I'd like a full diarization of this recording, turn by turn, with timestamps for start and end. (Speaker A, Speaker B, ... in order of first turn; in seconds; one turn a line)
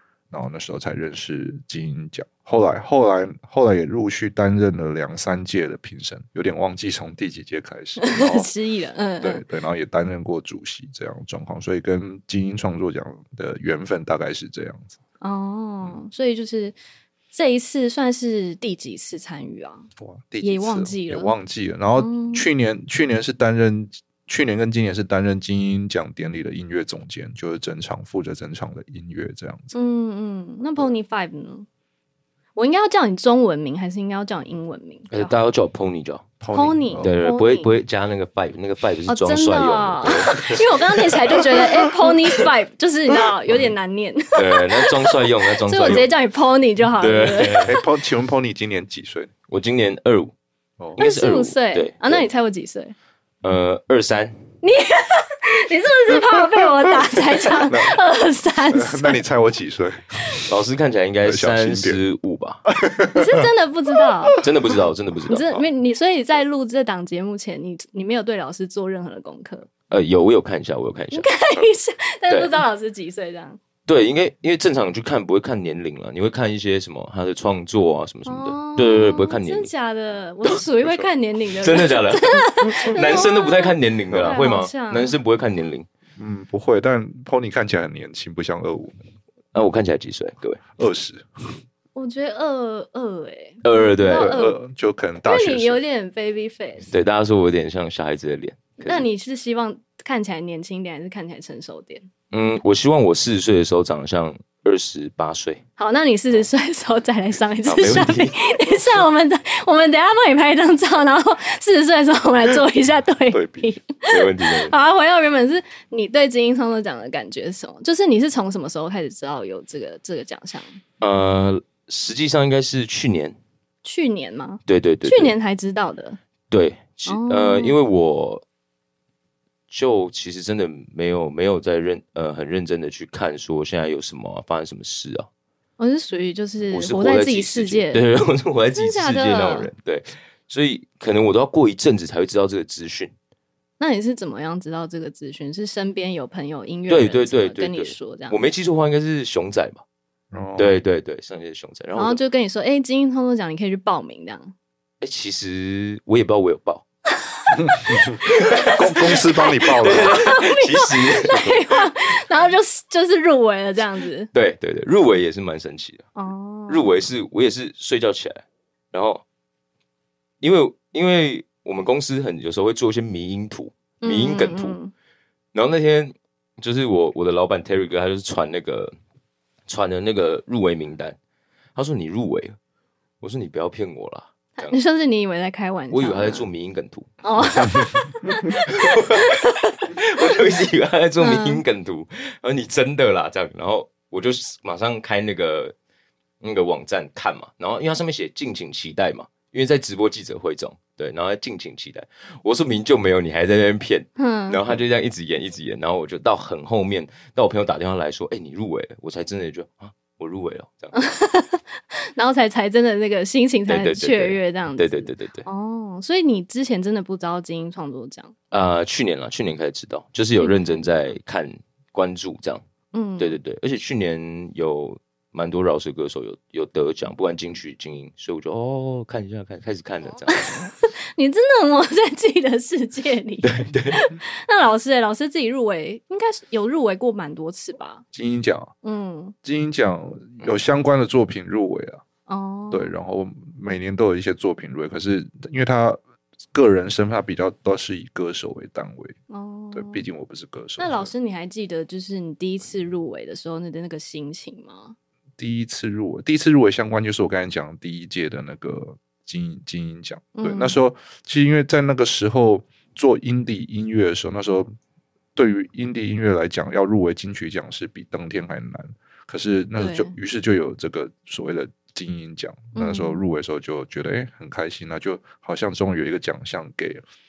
Speaker A: 0.3-8.5
Speaker B: 8.0-9.4
Speaker A: 9.2-15.0
Speaker B: 15.2-16.8
Speaker B: 17.3-19.9
Speaker A: 20.0-29.7
Speaker B: 20.4-21.3
Speaker B: 22.0-22.5
Speaker B: 29.7-31.7
Speaker B: 32.6-35.3
Speaker C: 35.1-36.3
Speaker A: 36.4-37.1
Speaker B: 36.5-37.8
Speaker C: 37.0-41.7
Speaker B: 39.1-47.9
Speaker C: 44.4-46.1
Speaker C: 47.0-47.8
Speaker A: 47.6-49.3
Speaker C: 49.5-50.3
Speaker C: 51.0-52.2
Speaker B: 51.0-53.0
Speaker C: 53.4-54.4
Speaker B: 54.6-59.2
Speaker A: 57.7-58.0
Speaker A: 58.7-60.5
Speaker C: 60.5-62.6
Speaker A: 61.2-62.0
Speaker A: 62.6-63.5
Speaker B: 63.1-64.4
Speaker C: 64.4-65.7
Speaker B: 65.3-69.7
Speaker C: 69.9-71.3
Speaker B: 71.1-73.6
Speaker C: 72.3-72.6
Speaker C: 73.9-79.7
Speaker B: 78.3-85.2
Speaker C: 81.6-85.9
Speaker A: 86.2-89.0
Speaker C: 89.5-90.6
Speaker A: 90.8-91.6
Speaker B: 92.0-94.6
Speaker C: 93.6-94.4
Speaker A: 94.1-95.8
Speaker B: 95.2-96.9
Speaker C: 96.9-99.1
Speaker B: 98.8-102.1
Speaker C: 102.3-105.6
Speaker B: 105.8-120.8
Speaker C: 107.7-108.5
Speaker A: 113.3-113.7
Speaker C: 114.0-114.7
Speaker C: 121.0-123.4
Speaker B: 123.8-126.2
Speaker C: 124.7-125.4
Speaker C: 126.5-128.4
Speaker B: 127.1-127.8
Speaker C: 129.7-135.3
Speaker B: 135.8-138.1
Speaker C: 136.7-143.1
Speaker B: 138.8-139.7
Speaker B: 143.8-148.4
Speaker C: 146.9-149.8
Speaker A: 150.3-150.8
Speaker C: 150.6-152.2
Speaker B: 152.0-154.5
Speaker C: 155.0-156.8
Speaker A: 157.6-158.2
Speaker C: 158.1-161.8
Speaker B: 158.7-164.3
Speaker A: 158.8-160.2
Speaker C: 164.3-166.1
Speaker B: 166.2-166.9
Speaker C: 166.7-169.2
Speaker C: 170.4-174.8
Speaker B: 174.0-174.9
Speaker C: 175.5-178.9
Speaker C: 179.7-181.2
Speaker C: 181.8-182.6
Speaker C: 183.2-184.8
Speaker B: 184.6-186.5
Speaker C: 185.9-187.9
Speaker B: 187.2-189.9
Speaker C: 188.4-195.7
Speaker B: 191.2-191.6
Speaker C: 196.4-210.9
Speaker B: 204.2-204.6
Speaker B: 210.9-218.3
Speaker C: 213.7-215.5
Speaker C: 218.5-222.6
Speaker B: 220.4-220.9
Speaker B: 222.9-223.4
Speaker C: 223.2-230.7
Speaker B: 230.3-238.0
Speaker C: 233.4-234.0
Speaker A: 238.1-238.7
Speaker B: 238.8-239.3
Speaker A: 239.4-242.0
Speaker B: 242.3-242.9
Speaker A: 242.7-246.0
Speaker A: 246.5-249.2
Speaker B: 249.3-250.1
Speaker A: 249.7-251.1
Speaker B: 250.8-255.0
Speaker A: 255.4-264.7
Speaker B: 260.4-260.8
Speaker A: 265.4-277.0
Speaker B: 269.8-270.1
Speaker B: 272.8-273.2